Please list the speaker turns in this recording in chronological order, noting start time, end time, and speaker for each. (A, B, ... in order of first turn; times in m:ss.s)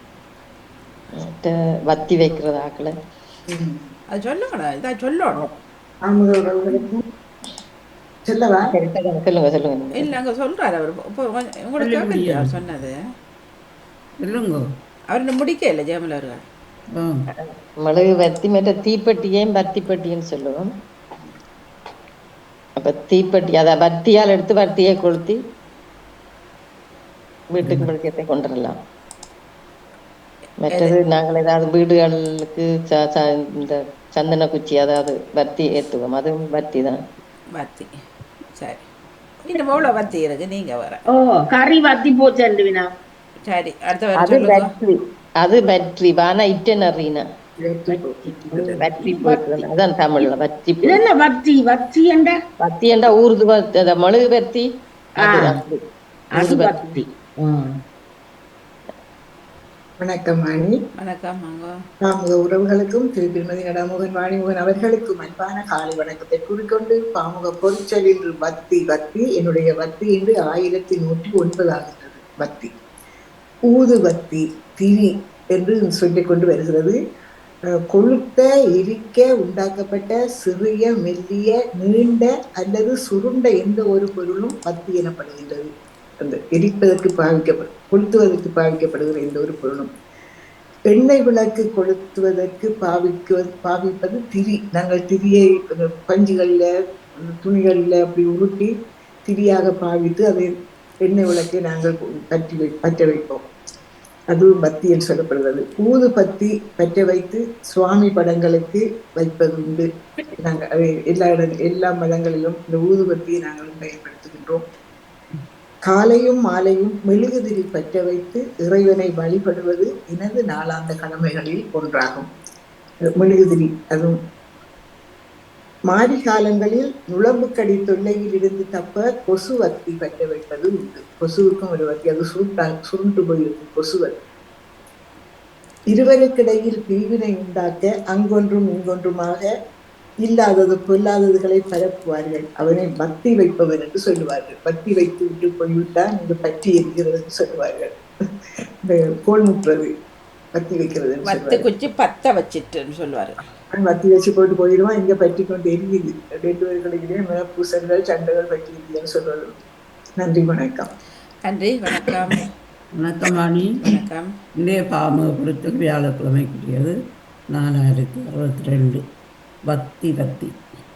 0:01.2-0:02.9 A
0:04.1-0:05.4 B
0:06.0-0:06.9 C
0:08.2-0:08.7 C
0:08.7-0:10.1 A
0:10.0-0:13.0 B
0:11.8-0:12.5 D
0:14.2-0:14.6 D
0:15.1-0:16.4 B
0:16.9-0:17.2 D
0:17.4-0:20.6 A
0:22.8-0:25.4 A
0:27.5-0:28.8 A
0:27.6-0:27.9 D
0:30.6-0:37.0 A
0:30.7-0:31.0 B
0:37.5-0:37.9 B
0:38.6-0:38.8 B
0:39.4-0:41.0 B
0:41.1-0:42.9 E
0:43.4-0:44.7 B
0:44.2-0:47.2 A
0:47.6-0:48.8 C
0:48.6-0:51.1 A
0:49.0-0:49.6 E
0:50.8-0:52.4 E
0:52.6-0:54.6 A
0:55.2-0:55.6 E
0:55.2-0:55.8 A
0:56.3-0:57.7 E
0:56.4-0:56.9 A
1:00.0-1:00.7 C
1:01.0-1:01.8 B
1:02.0-1:12.7 C
1:13.7-1:17.0 C
1:17.9-1:25.7 C
1:26.2-1:29.9 C
1:30.9-1:36.7 C
1:37.2-1:38.7 C
1:39.2-1:40.5 C
1:41.0-1:43.4 C
1:44.3-1:49.9 C
1:50.4-1:54.6 C
1:55.8-2:02.3 C
2:03.2-2:04.2 C
2:05.9-2:14.1 C
2:15.9-2:19.5 C
2:20.2-2:28.0 C
2:28.8-2:29.9 C
2:30.5-2:31.7 C
2:31.3-2:33.4 B
2:33.7-2:39.6 C
2:40.2-2:40.9 C
2:41.4-2:42.5 B
2:43.0-2:43.8 D
2:43.8-2:44.3 B
2:44.6-2:46.9 D
2:47.5-2:49.0 D
2:49.7-2:50.5 D